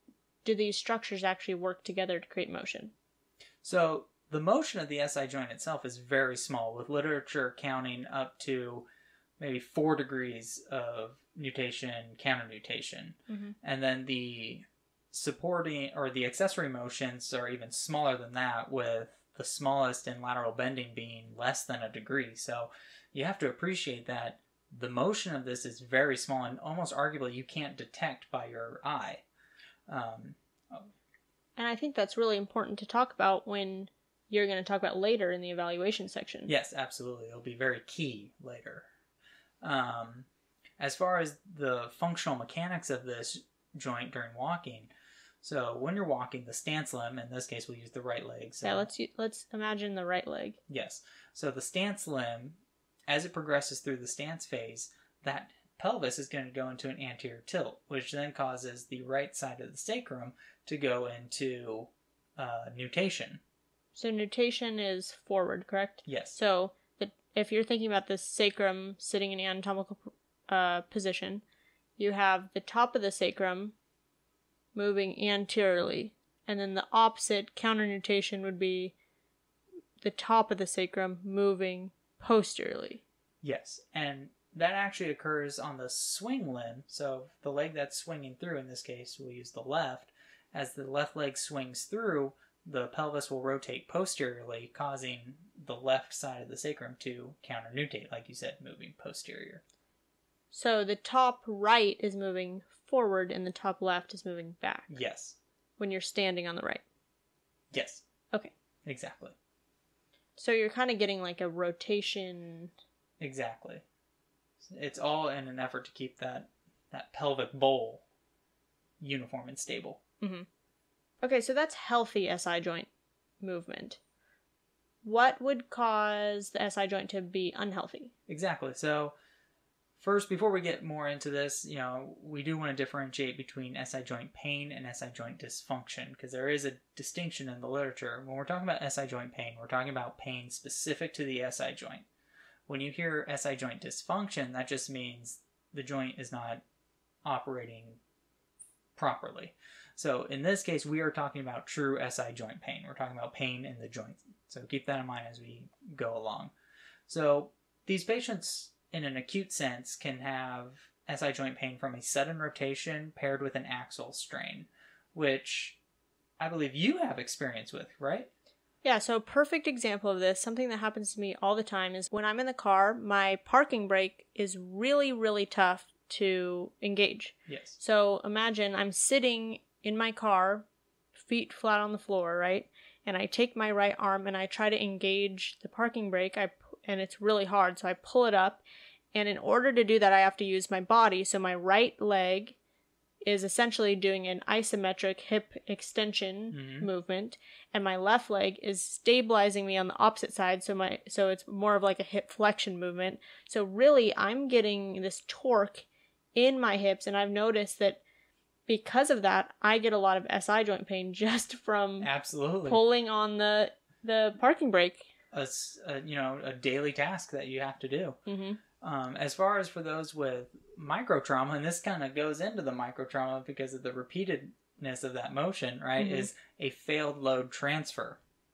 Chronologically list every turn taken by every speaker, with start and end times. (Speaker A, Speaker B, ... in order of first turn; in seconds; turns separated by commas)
Speaker A: 0.4-2.9, Speaker B: 3.6-8.9, Speaker B: 9.4-29.2, Speaker A: 13.3-13.6, Speaker B: 29.9-30.9, Speaker A: 31.6-36.5, Speaker B: 36.5-38.9, Speaker B: 39.6-40.3, Speaker B: 40.8-44.9, Speaker B: 45.4-48.9, Speaker A: 48.6-50.6, Speaker B: 50.7-63.4, Speaker A: 64.0-71.4, Speaker B: 66.0-66.4, Speaker A: 72.0-73.8, Speaker A: 74.8-78.9, Speaker A: 80.0-83.0, Speaker B: 83.4-99.6, Speaker A: 100.5-105.0, Speaker B: 104.9-105.4, Speaker A: 105.8-106.8, Speaker B: 107.7-108.0, Speaker B: 108.8-109.3, Speaker A: 110.4-112.7, Speaker B: 113.2-113.8, Speaker B: 114.6-118.0, Speaker B: 119.0-120.0, Speaker A: 120.2-120.5, Speaker A: 121.2-122.9, Speaker A: 123.4-124.0, Speaker A: 125.0-128.1, Speaker B: 128.3-129.2, Speaker B: 130.0-142.1, Speaker B: 142.7-146.6, Speaker B: 147.2-148.0, Speaker B: 149.0-156.5, Speaker B: 157.1-165.8, Speaker B: 166.4-168.3, Speaker A: 168.8-192.6, Speaker B: 177.5-177.8, Speaker A: 193.2-208.0, Speaker B: 196.5-196.9, Speaker A: 208.7-212.1, Speaker B: 212.0-212.8, Speaker A: 212.7-215.1, Speaker B: 215.3-218.2, Speaker A: 218.3-218.6, Speaker B: 218.8-228.2, Speaker A: 226.0-226.3